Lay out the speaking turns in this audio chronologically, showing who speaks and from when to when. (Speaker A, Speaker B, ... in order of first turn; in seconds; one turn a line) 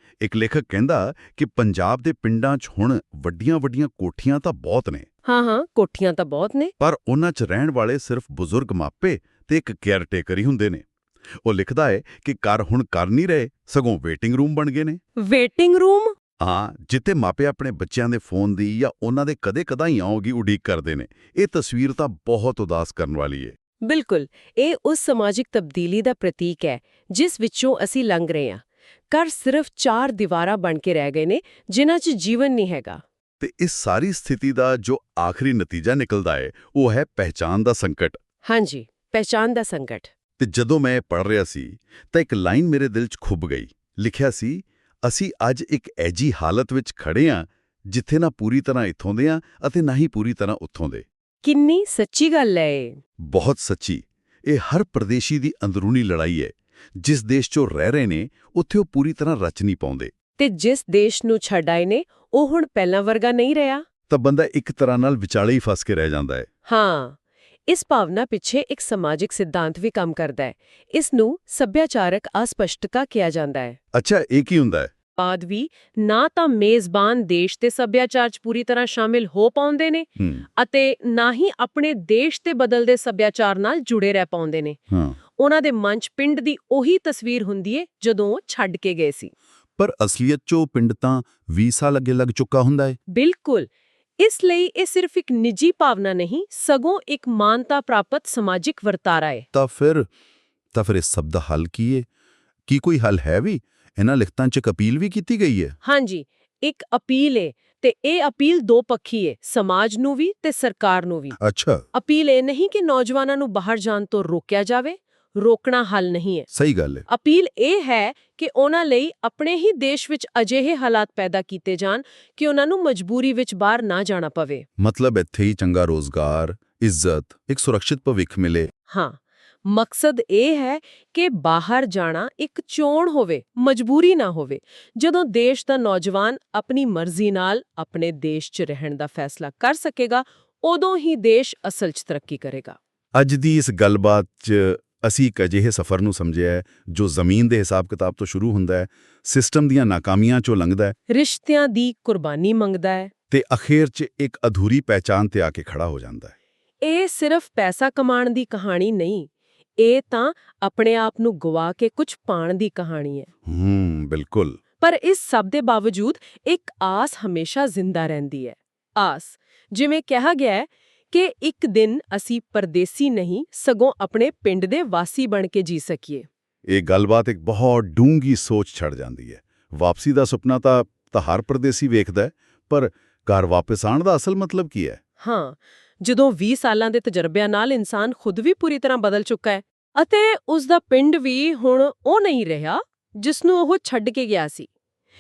Speaker A: 0.2-5.1
Speaker B: 5.3-6.7
Speaker A: 6.8-10.9
Speaker A: 11.4-15.0
Speaker B: 15.2-16.1
Speaker A: 16.4-23.6
Speaker B: 23.8-33.0
Speaker A: 33.4-38.2
Speaker B: 38.5-40.1
Speaker A: 40.4-51.0
Speaker B: 51.4-53.0
Speaker A: 53.2-60.1
Speaker B: 60.4-63.9
Speaker A: 64.1-66.5
Speaker B: 66.7-73.8
Speaker A: 73.9-74.9
Speaker B: 75.2-84.8
Speaker A: 80.2-80.4
Speaker A: 84.9-85.2
Speaker B: 85.4-89.3
Speaker A: 89.8-93.0
Speaker B: 93.1-93.7
Speaker B: 94.2-99.5
Speaker A: 99.5-100.1
Speaker A: 100.7-102.1
Speaker A: 102.7-105.8
Speaker B: 105.8-111.4
Speaker A: 111.4-111.8
Speaker B: 111.9-116.5
Speaker A: 116.5-117.1
Speaker B: 117.1-124.7
Speaker A: 124.8-128.7
Speaker B: 128.9-142.8
Speaker A: 143.2-151.0
Speaker B: 151.1-153.1
Speaker A: 153.3-156.3
Speaker B: 156.8-163.3
Speaker A: 163.5-164.6
Speaker B: 164.8-176.3
Speaker A: 176.7-185.0
Speaker B: 185.2-194.7